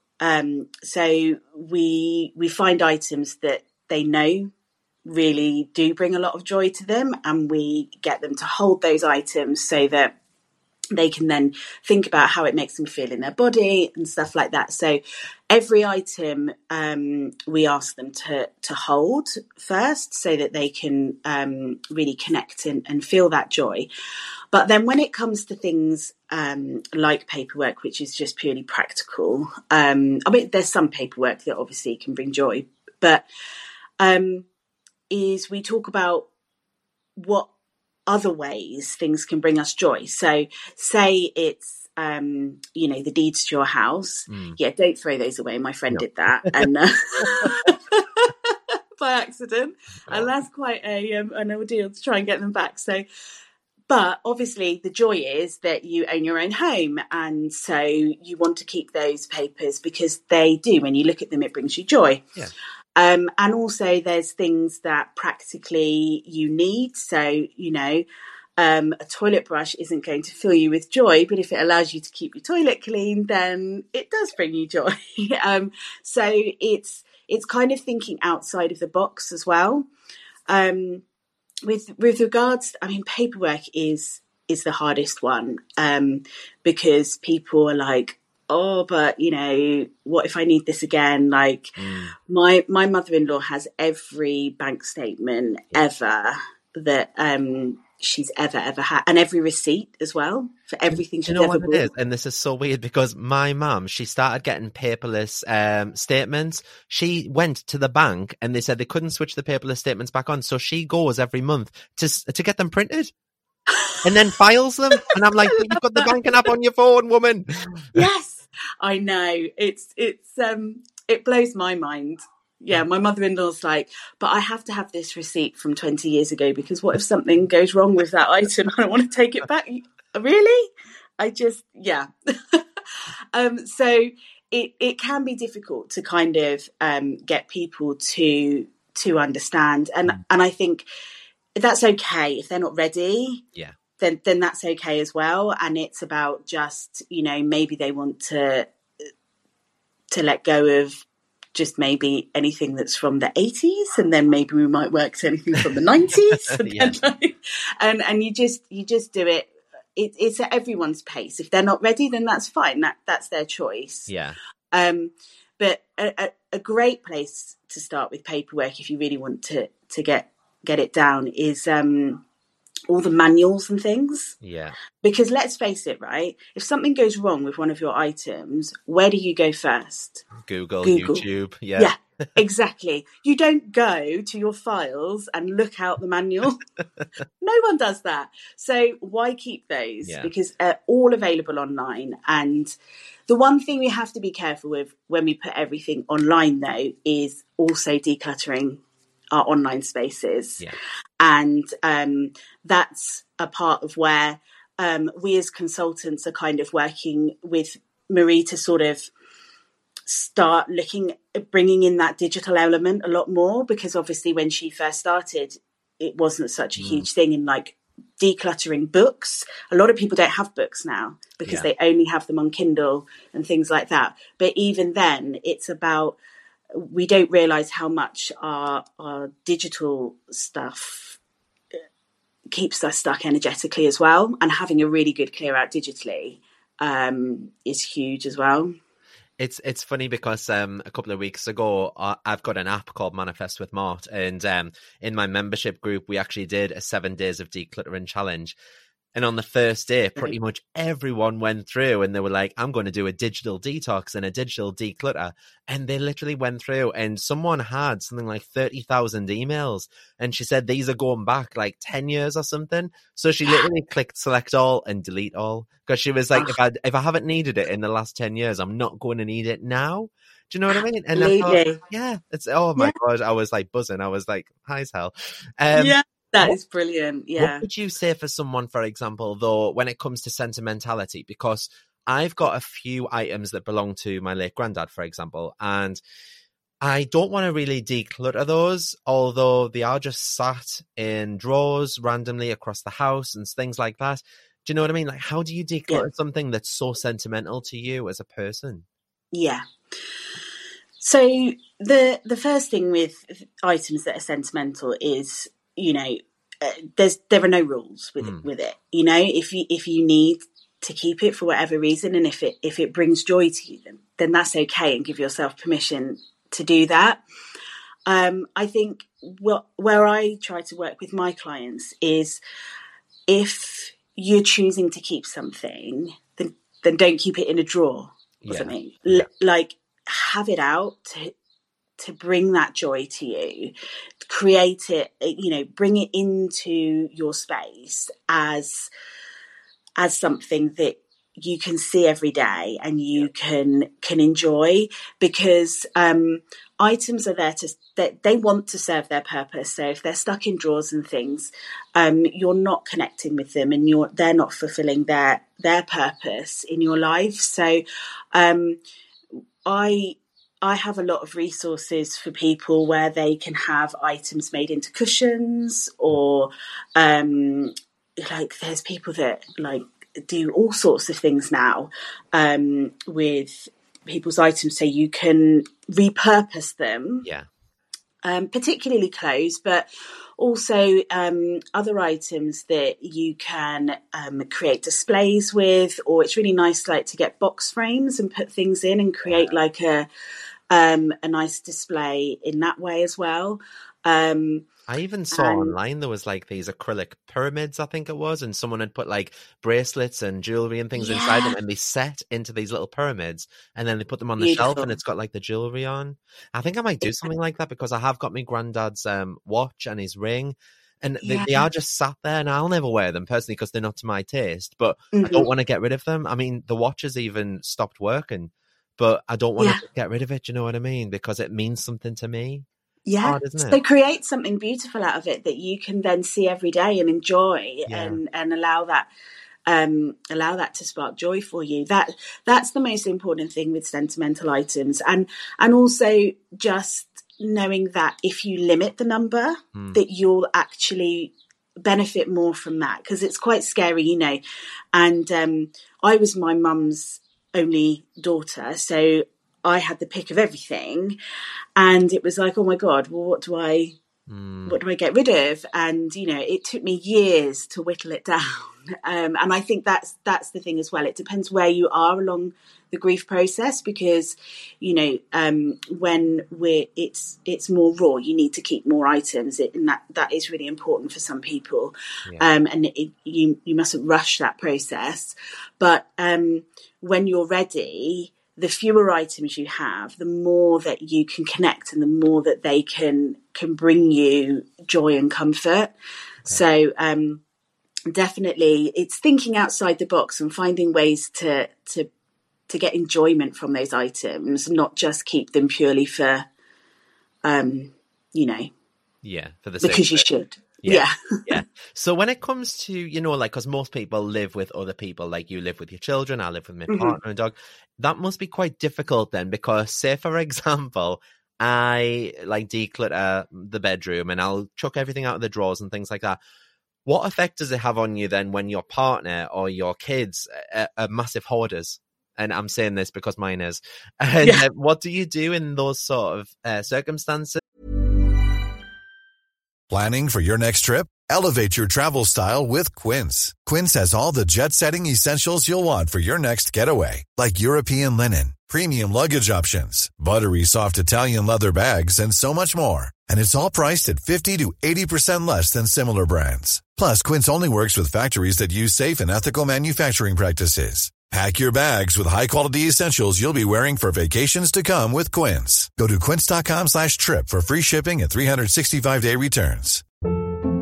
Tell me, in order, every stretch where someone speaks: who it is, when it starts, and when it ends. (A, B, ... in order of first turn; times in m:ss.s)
0:00.2-0:04.5 A
0:05.0-0:10.1 A
0:10.9-0:23.9 A
0:24.5-0:33.2 A
0:34.0-0:34.5 A
0:35.1-0:36.3 A
0:37.2-0:37.5 A
0:38.1-0:53.0 A
0:44.3-0:44.6 B
0:45.9-0:46.6 B
0:53.9-1:02.2 A
1:03.0-1:08.0 A
1:08.6-1:19.9 A
1:20.5-1:21.0 A
1:21.6-1:41.9 A
1:31.8-1:32.1 B
1:40.9-1:53.1 B
1:53.7-1:54.0 A
1:54.0-1:58.0 B
1:55.6-1:56.0 A
1:57.9-2:12.8 A
2:13.3-2:20.8 A
2:21.5-2:23.4 A
2:24.0-2:29.1 A
2:30.1-2:31.0 A
2:31.5-2:44.1 A
2:36.5-2:37.0 B
2:44.1-2:44.4 B
2:44.7-2:52.2 A
2:52.9-2:54.4 A
2:54.4-2:54.8 B
2:55.0-3:00.3 A
3:00.4-3:01.9 B
3:00.8-3:01.2 A
3:01.8-3:06.6 A
3:07.4-3:12.7 A
3:10.0-3:10.3 B
3:13.3-3:18.8 A
3:19.3-3:20.7 A
3:21.2-3:29.1 A
3:30.1-3:46.2 A
3:36.8-3:37.1 B
3:46.7-3:51.2 A
3:52.5-3:58.7 A
3:59.4-4:08.5 B
4:09.1-4:36.6 B
4:30.7-4:31.8 A
4:35.7-4:37.6 A
4:37.4-4:46.0 B
4:46.8-4:58.8 B
4:59.3-4:59.6 A
5:01.0-5:17.2 A
5:08.2-5:08.4 B
5:18.0-5:22.4 A
5:23.3-5:31.3 A
5:28.4-5:29.3 B
5:32.0-5:38.9 A
5:40.0-5:57.8 A
5:58.3-5:58.8 A
5:59.6-6:17.3 A
6:18.2-6:19.9 A
6:20.4-6:30.1 A
6:30.7-6:34.7 A
6:34.9-7:02.6 B
6:35.3-6:35.7 A
6:41.0-6:41.6 A
6:44.4-6:45.0 A
6:47.0-6:47.3 A
6:51.2-6:51.7 A
6:55.1-6:55.5 A
7:03.0-7:09.1 A
7:03.2-7:03.8 B
7:07.9-7:08.2 B
7:09.6-7:24.4 A
7:19.7-7:20.0 B
7:24.9-7:31.2 A
7:31.8-7:34.0 A
7:34.3-7:34.8 B
7:34.6-8:05.9 A
8:06.5-8:07.4 A
8:08.1-8:12.1 A
8:12.7-8:16.4 A
8:17.4-8:18.7 A
8:19.2-8:20.2 B
8:19.8-8:21.2 A
8:20.8-8:36.4 B
8:26.9-8:27.2 A
8:37.0-8:47.6 B
8:49.9-9:20.0 C